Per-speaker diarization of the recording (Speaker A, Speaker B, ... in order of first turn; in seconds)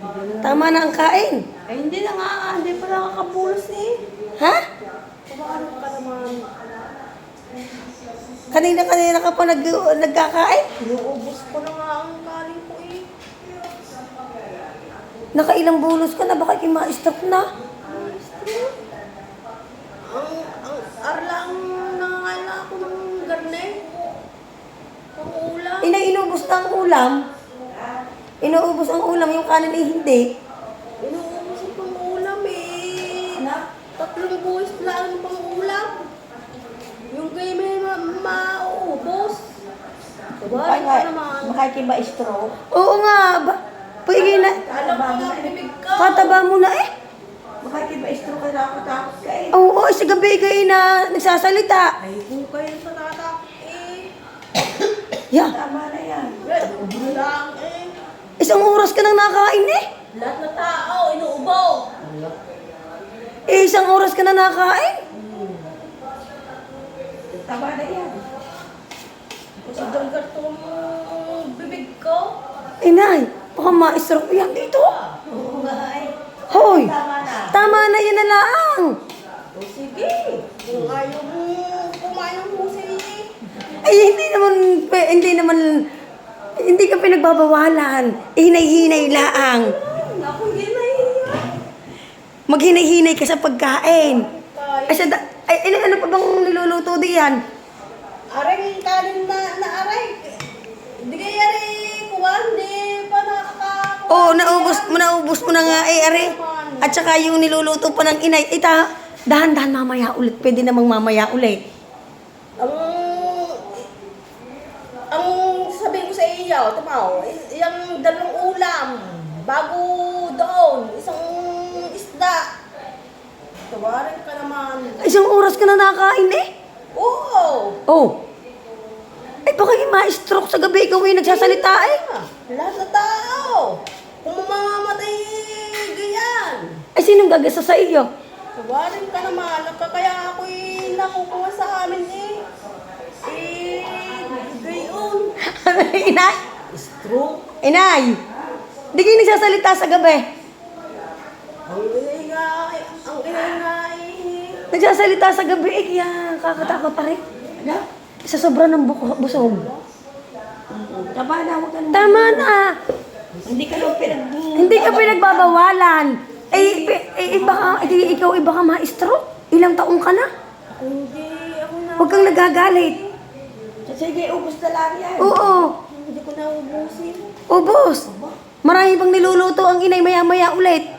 Speaker A: 0.2-0.7, 1.7-4.0, 5.3-6.5, 10.8-13.1, 17.9-18.7, 20.1-23.9, 25.1-26.0, 31.0-33.5, 34.0-36.0, 37.1-39.5, 40.4-41.6, 44.1-46.4, 52.0-54.1, 56.4-58.0, 60.1-62.0, 65.2-65.6, 69.7-72.3, 74.3-75.2, 79.5-83.3, 88.7-91.5, 93.9-95.1, 98.3-100.4, 101.0-107.0, 112.6-113.8, 115.1-122.5, 123.7-125.2, 126.9-127.8, 131.2-136.7, 138.6-142.4, 143.2-145.4, 146.7-147.5, 151.7-154.6, 159.4-159.8, 163.7-164.2, 170.7-173.1, 175.7-177.2
Speaker B: 0.4-1.4, 8.5-10.7, 15.3-17.5, 25.8-27.2, 28.4-30.3, 42.7-44.6, 46.0-46.9, 49.5-51.9, 58.4-59.8, 63.5-65.0, 72.8-74.9, 76.5-76.9, 77.5-78.9, 83.8-85.8, 86.6-89.7, 92.5-94.2, 94.9-97.4, 104.1-111.6, 125.0-126.5, 127.9-128.2, 129.5-132.0, 136.9-138.1, 145.4-146.4, 147.6-148.2, 148.9-150.2, 154.7-157.2, 158.2-159.7, 161.9-162.7, 164.5-170.3, 172.0-173.0, 175.2-175.7, 177.5-178.1, 178.6-180.8
Speaker C: 33.3-33.7, 40.5-42.5, 44.5-45.5, 47.6-49.6, 55.4-56.7, 67.3-68.2, 69.6-70.0, 75.2-77.6, 157.6-157.8, 160.7-162.5, 163.4-165.6, 166.5-168.3, 173.8-175.7